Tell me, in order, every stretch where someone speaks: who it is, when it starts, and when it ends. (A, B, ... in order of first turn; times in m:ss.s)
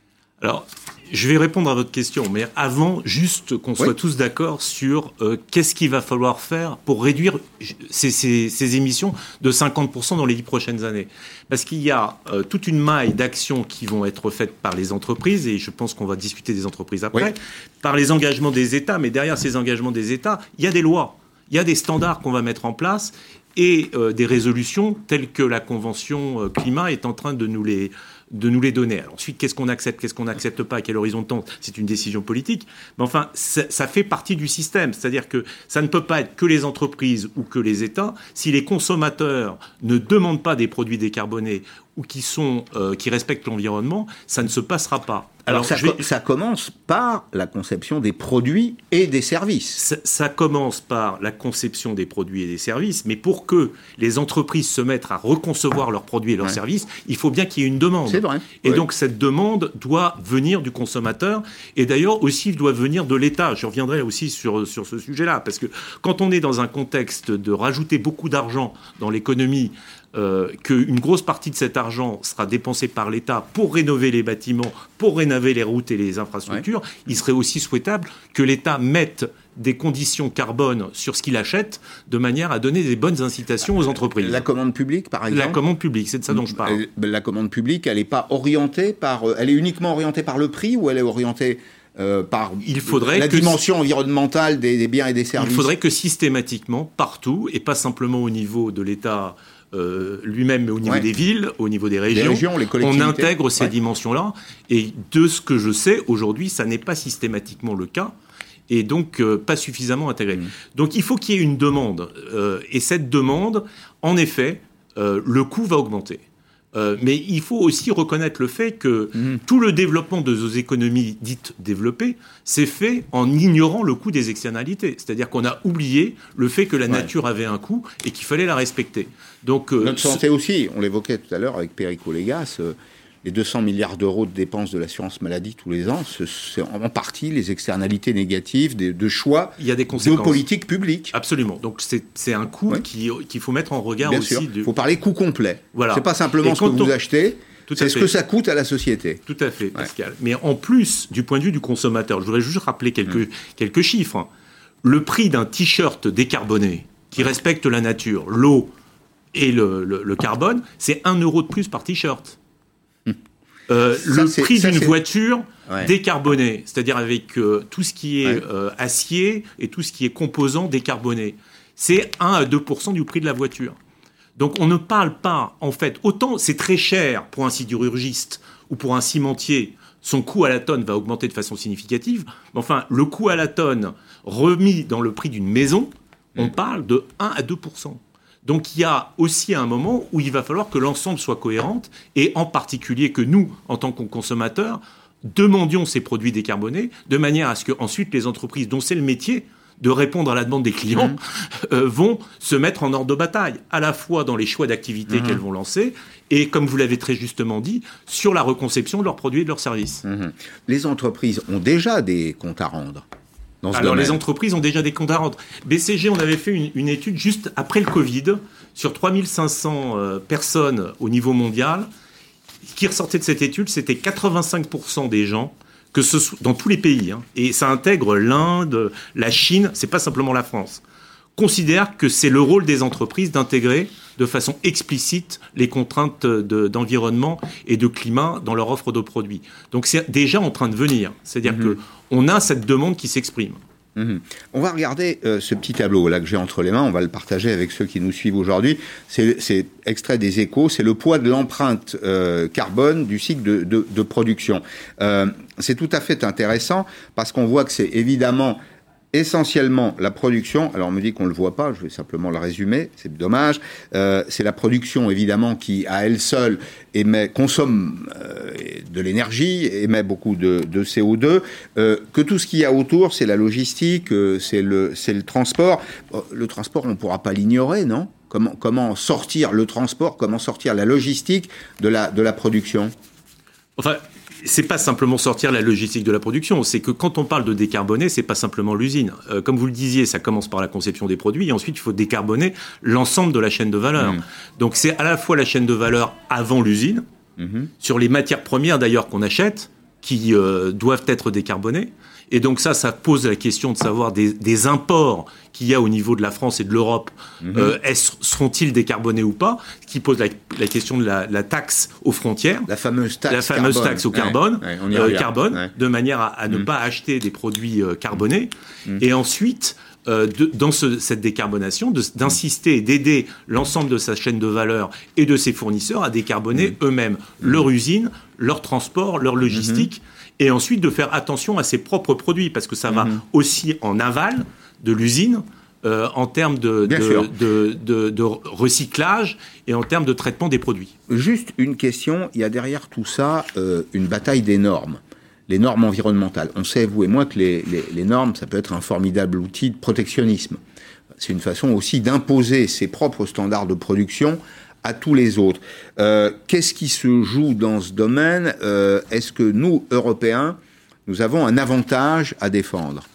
0:00.4-0:46.0 A
0:45.5-0:49.8 B
0:49.8-1:24.4 A
0:58.1-0:58.8 B
1:24.2-1:25.6 B
1:25.3-1:26.8 A
1:26.3-1:35.7 B
1:32.6-1:33.6 A
1:35.4-1:48.1 A
1:42.1-1:43.7 B
1:48.7-1:56.2 A
1:56.7-2:10.2 A
2:09.8-2:21.1 B
2:19.6-2:20.4 A
2:21.1-2:24.7 A
2:24.0-2:29.2 B
2:25.7-2:27.0 A
2:27.7-2:28.1 A
2:29.3-2:34.3 A
2:34.8-2:38.7 A
2:39.3-2:42.4 A
2:43.7-2:53.8 A
2:44.0-2:45.0 B
2:54.4-3:30.0 A
3:25.1-3:25.4 B
3:30.0-3:33.0 B
3:33.6-3:34.2 B
3:33.7-3:41.9 A
3:42.7-3:50.8 A
3:51.4-4:03.6 A
4:01.5-4:01.7 B
4:04.0-4:18.6 B
4:19.1-4:42.9 B
4:43.8-4:57.0 A
4:57.4-4:57.7 B
4:57.8-5:12.7 A
5:07.4-5:07.8 B
5:12.7-5:15.7 B
5:13.3-5:40.9 A
5:29.5-5:29.9 B
5:32.9-5:33.2 B
5:36.9-5:37.3 B
5:41.1-5:50.6 B
5:51.2-6:03.1 B